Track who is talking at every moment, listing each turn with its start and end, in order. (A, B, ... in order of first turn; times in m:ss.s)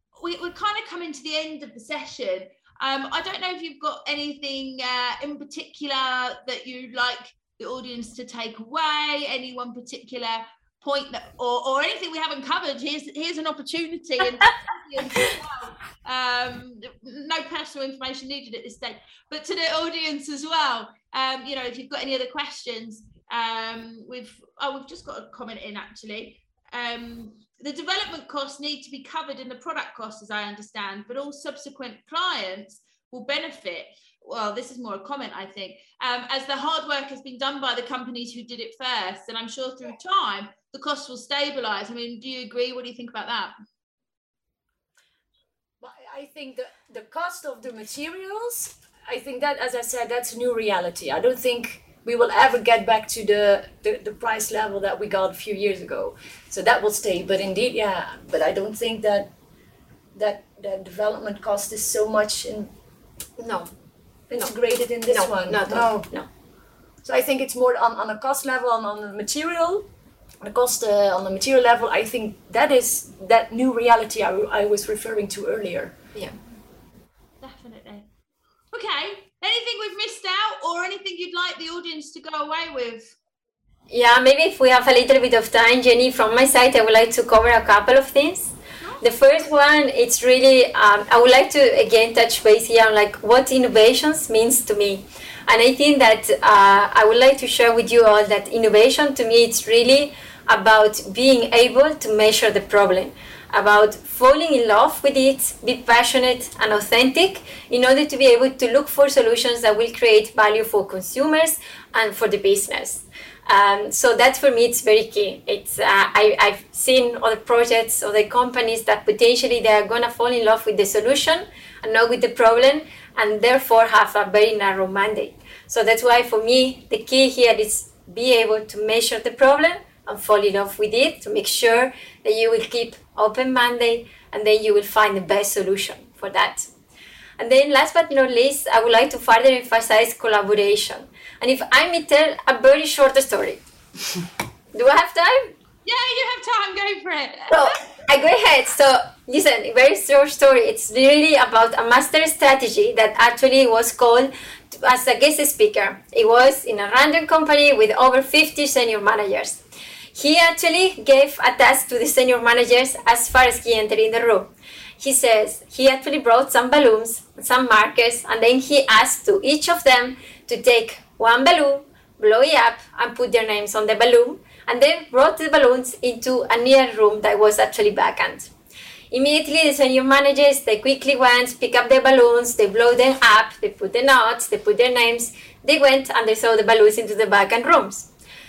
0:00.2-0:43.5 A
0:45.8-0:59.3 B
1:00.1-1:02.7 B
1:03.4-1:03.7 C
1:04.3-1:06.1 B
1:05.1-1:06.3 C
1:07.0-1:09.8 B
1:10.4-1:16.0 B
1:17.4-1:18.1 A
1:18.7-1:23.2 A
1:23.9-2:16.7 C
2:17.4-2:23.6 C
2:24.7-2:25.5 C
2:25.8-2:27.6 A
2:27.5-2:39.6 C
2:40.1-2:58.5 C
2:59.1-3:08.1 C